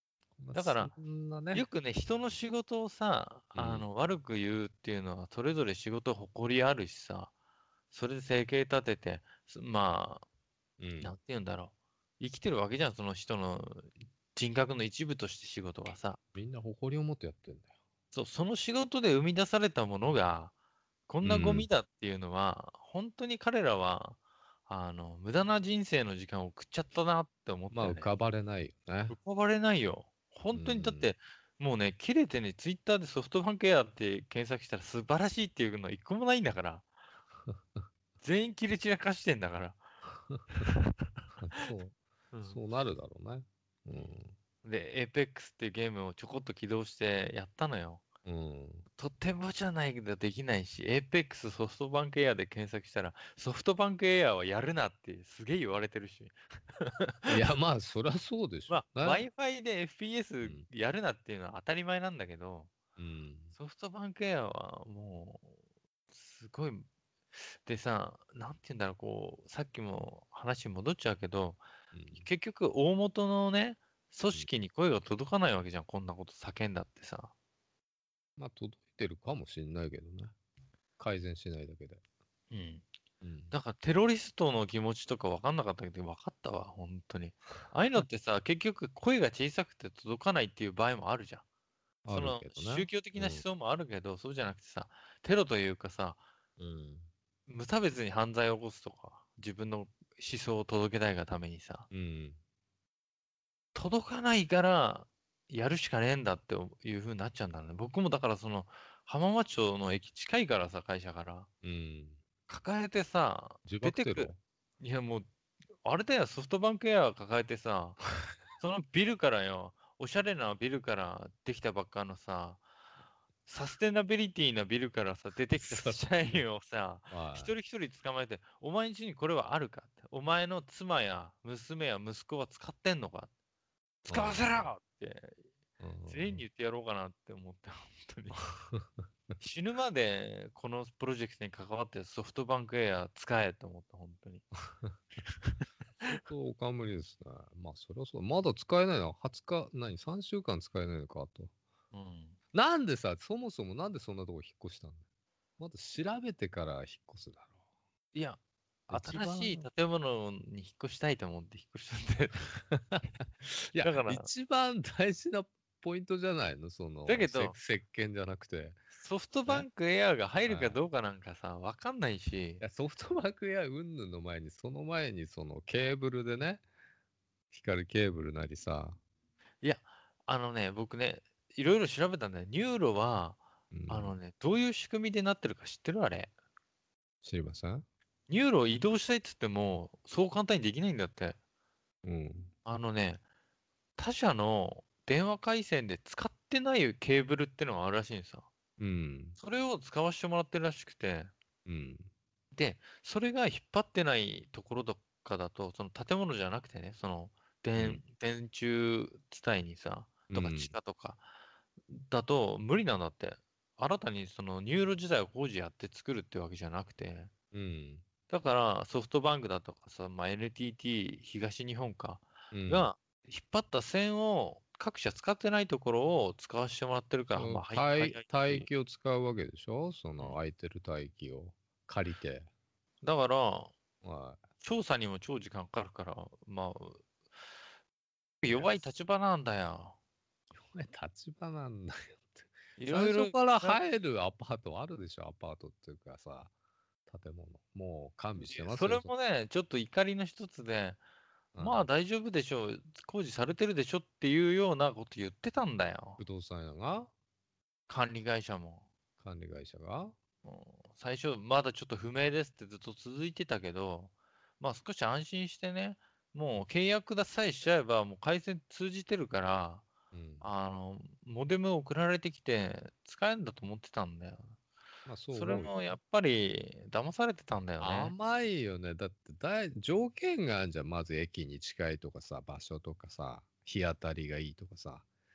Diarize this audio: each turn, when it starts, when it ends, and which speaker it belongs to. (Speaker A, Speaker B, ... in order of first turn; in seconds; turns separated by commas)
Speaker A: 0.4-1.7, Speaker B: 0.5-0.9, Speaker B: 1.5-7.3, Speaker A: 3.5-3.9, Speaker B: 7.9-10.3, Speaker A: 10.8-11.1, Speaker B: 11.0-16.2, Speaker A: 16.4-17.7, Speaker B: 18.1-20.5, Speaker B: 21.1-28.1, Speaker A: 21.2-21.7, Speaker A: 27.7-29.2, Speaker B: 29.1-36.9, Speaker A: 30.5-31.1, Speaker B: 38.2-39.8, Speaker A: 41.4-44.4, Speaker B: 42.3-42.6, Speaker B: 44.6-48.0, Speaker A: 48.2-48.9, Speaker B: 49.0-57.4, Speaker A: 57.3-59.2, Speaker B: 58.7-62.7, Speaker A: 63.0-63.5, Speaker B: 63.5-65.5, Speaker B: 66.1-71.6, Speaker A: 71.9-72.3, Speaker B: 72.2-77.3, Speaker A: 78.4-80.3, Speaker A: 81.0-82.0, Speaker B: 82.5-82.9, Speaker A: 83.2-83.5, Speaker B: 83.5-91.4, Speaker A: 92.0-93.5, Speaker B: 92.1-96.2, Speaker A: 96.6-97.1, Speaker B: 97.5-101.9, Speaker A: 101.9-102.4, Speaker B: 103.8-111.5, Speaker A: 111.6-112.2, Speaker B: 112.5-115.3, Speaker A: 113.7-114.4, Speaker B: 115.8-118.0, Speaker B: 118.6-122.6, Speaker B: 123.5-133.3, Speaker A: 125.5-126.4, Speaker A: 127.1-127.5, Speaker B: 134.0-135.4, Speaker A: 134.1-134.7, Speaker A: 135.8-136.4, Speaker B: 136.1-138.5, Speaker A: 138.6-138.9, Speaker B: 139.4-144.4, Speaker A: 144.7-144.9, Speaker B: 145.3-146.2, Speaker A: 146.2-151.5, Speaker B: 151.9-152.4, Speaker A: 152.5-155.0, Speaker A: 155.6-157.5, Speaker B: 158.1-162.6, Speaker A: 158.9-159.7, Speaker A: 162.7-168.8, Speaker B: 163.8-164.3, Speaker B: 167.1-167.6, Speaker B: 169.0-172.6, Speaker A: 170.5-170.8, Speaker A: 172.6-176.6, Speaker A: 177.5-179.0, Speaker B: 179.6-186.3, Speaker A: 183.7-184.1, Speaker A: 187.2-187.8, Speaker B: 188.3-191.4, Speaker A: 192.0-192.5, Speaker B: 192.7-193.2, Speaker B: 194.0-198.5, Speaker A: 198.8-199.4, Speaker B: 199.4-201.3, Speaker A: 201.7-202.1, Speaker B: 202.5-211.2, Speaker A: 207.8-208.0, Speaker A: 210.3-210.8, Speaker B: 211.9-217.3, Speaker A: 217.5-218.0, Speaker B: 218.3-228.7, Speaker A: 222.5-222.9, Speaker A: 227.4-232.5, Speaker B: 233.0-233.7, Speaker A: 234.0-234.4, Speaker B: 234.6-237.0, Speaker B: 238.4-240.0, Speaker A: 238.5-238.8, Speaker A: 240.6-246.5, Speaker B: 242.8-243.8, Speaker A: 247.1-249.1, Speaker B: 248.4-251.0, Speaker A: 251.6-251.9, Speaker B: 251.6-256.2, Speaker A: 256.2-257.1, Speaker B: 257.9-258.9, Speaker A: 259.2-260.1, Speaker B: 260.4-269.9, Speaker A: 270.1-270.5, Speaker B: 270.4-274.6, Speaker A: 275.1-275.7, Speaker B: 275.3-278.1, Speaker A: 277.8-285.1